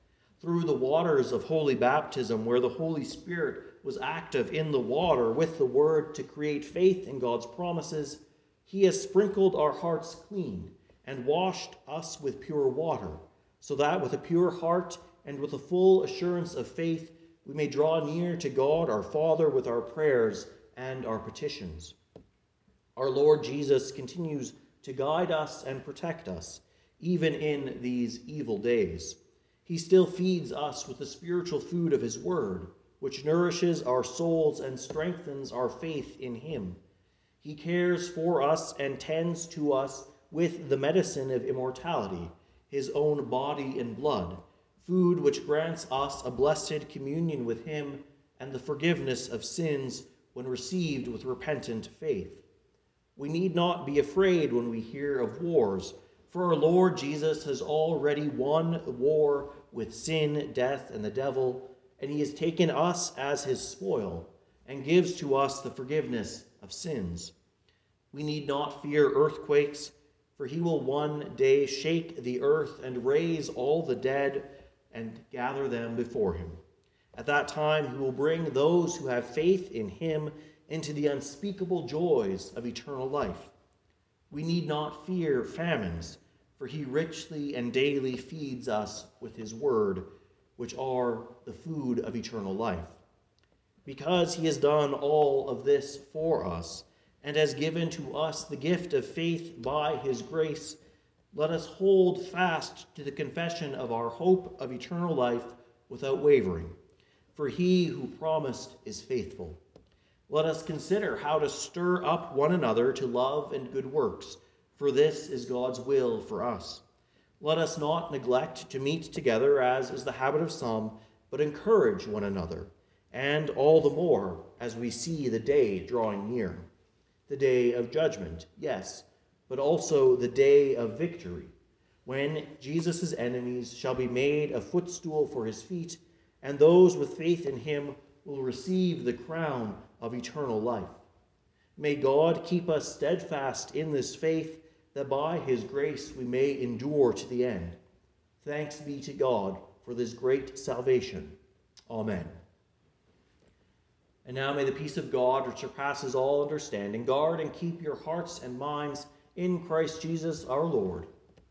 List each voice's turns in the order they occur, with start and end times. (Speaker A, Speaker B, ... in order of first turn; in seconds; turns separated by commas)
Speaker A: 0.4-21.9, Speaker A: 22.9-36.8, Speaker A: 37.4-52.4, Speaker A: 53.1-67.3, Speaker A: 68.1-76.6, Speaker A: 77.1-83.5, Speaker A: 84.3-93.0, Speaker A: 93.8-100.8, Speaker A: 101.3-106.8, Speaker A: 107.3-109.6, Speaker A: 110.3-116.8, Speaker A: 117.4-126.7, Speaker A: 127.3-131.5, Speaker A: 132.1-141.0, Speaker A: 141.8-147.8, Speaker A: 148.4-151.4, Speaker A: 151.9-152.3, Speaker A: 154.2-161.1